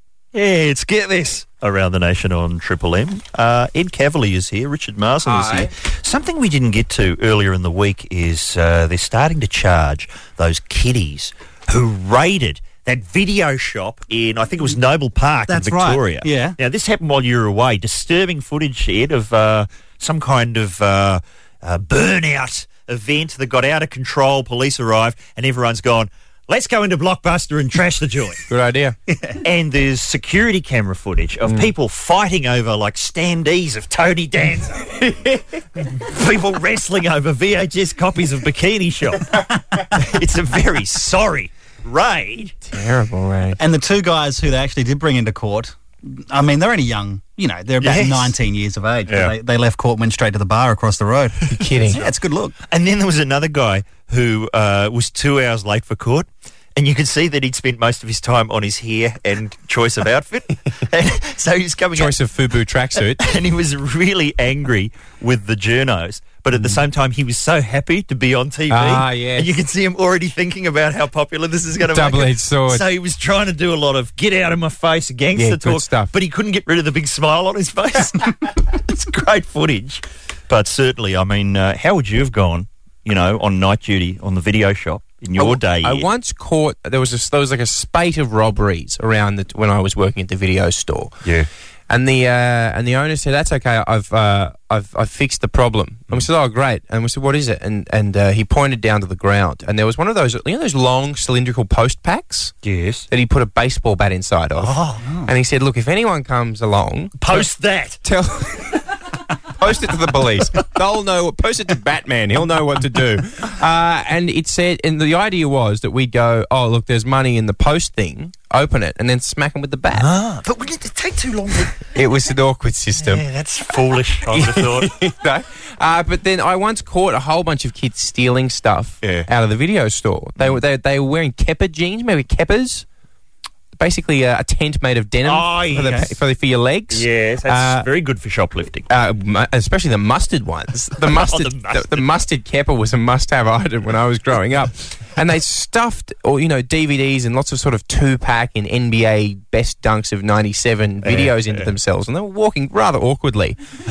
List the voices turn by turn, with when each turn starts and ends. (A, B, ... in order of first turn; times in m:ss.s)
0:00.3-0:28.4 A
0:05.2-0:05.7 B
0:15.5-0:16.6 C
0:28.5-0:29.0 B
0:29.1-0:29.4 C
0:29.4-0:35.0 A
0:35.0-0:35.4 B
0:35.9-0:39.3 A
0:39.9-0:42.5 A
0:42.6-0:43.6 B
0:43.6-0:51.4 C
0:47.8-0:48.3 A
0:49.1-0:49.3 A
0:51.5-0:52.0 B
0:51.9-0:52.6 C
0:52.7-1:02.1 A
1:02.0-1:03.2 B
1:03.2-1:26.1 A
1:08.7-1:09.5 B
1:11.9-1:12.8 B
1:15.4-1:16.1 B
1:25.4-1:31.2 B
1:31.9-1:42.5 B
1:42.6-1:43.1 A
1:43.1-1:47.4 B
1:44.6-1:45.0 A
1:45.0-1:45.3 C
1:47.2-1:48.0 A
1:48.0-1:48.8 B
1:49.6-2:00.1 B
1:59.9-2:01.8 A
2:01.9-2:03.2 B
2:03.0-2:04.9 A
2:04.3-2:12.8 B
2:09.0-2:09.3 A
2:13.7-2:17.8 B
2:15.2-2:16.0 A
2:15.8-2:16.0 C
2:16.9-2:18.9 A
2:18.9-2:33.6 B
2:21.0-2:22.1 A
2:31.0-2:31.7 A